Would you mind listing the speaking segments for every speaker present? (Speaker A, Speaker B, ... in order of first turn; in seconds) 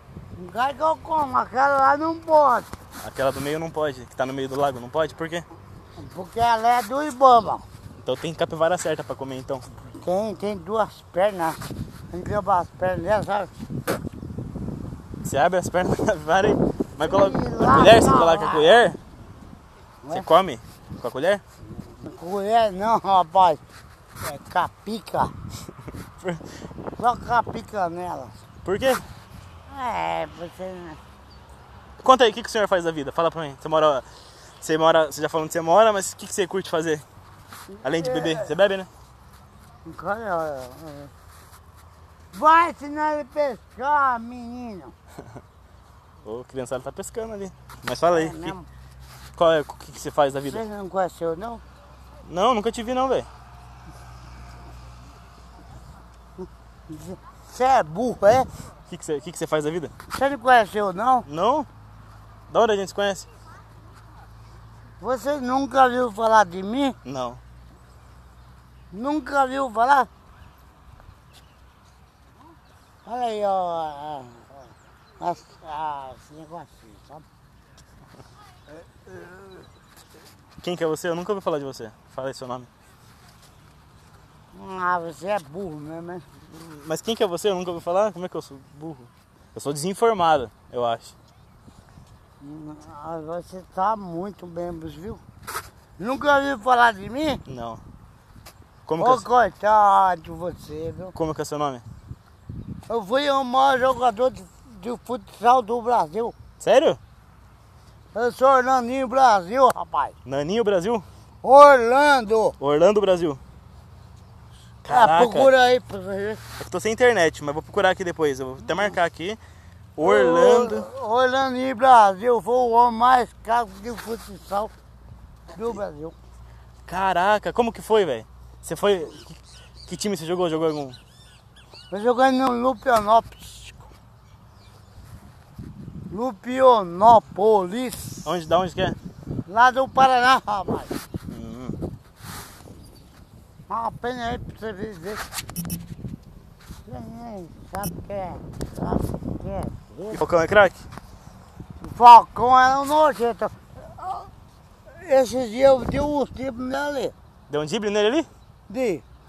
Speaker A: 0.4-2.7, 6.0-7.7, 9.9-11.6, 12.1-13.5, 17.0-18.8, 22.0-23.6, 24.2-25.3, 27.0-28.4, 29.7-31.0, 37.9-38.5, 39.9-41.1, 42.3-44.9, 48.1-48.7, 50.4-51.6, 56.9-58.5, 60.1-61.3, 65.0-67.0, 68.9-70.1, 73.0-74.6, 75.2-77.2, 79.1-79.4, 84.5-86.2, 92.4-95.2, 96.0-97.4, 99.0-101.2, 102.9-106.3, 108.1-110.1, 111.4-112.6, 114.9-116.4, 120.0-124.7, 125.5-126.2, 131.9-133.9, 136.1-138.2, 139.5-140.9, 143.7-145.2, 146.9-150.2, 151.8-154.3, 154.9-157.1, 158.7-159.0
Speaker B: 3.0-5.5, 8.0-9.7, 15.2-19.0, 20.1-21.4, 28.6-29.0, 32.0-34.1, 34.6-37.0, 37.8-38.9, 46.2-48.5, 49.4-50.6, 52.2-53.3, 58.9-59.9, 61.3-61.7, 62.5-63.3, 67.0-67.4, 80.6-82.7, 86.5-91.2, 97.5-97.8, 98.9-99.3, 101.2-101.8, 106.6-107.0, 110.2-111.1, 112.6-113.4, 114.8-115.5, 116.6-119.4, 120.0-120.9, 126.9-131.0, 138.2-139.0, 141.3-141.8, 150.1-150.8, 157.5-158.3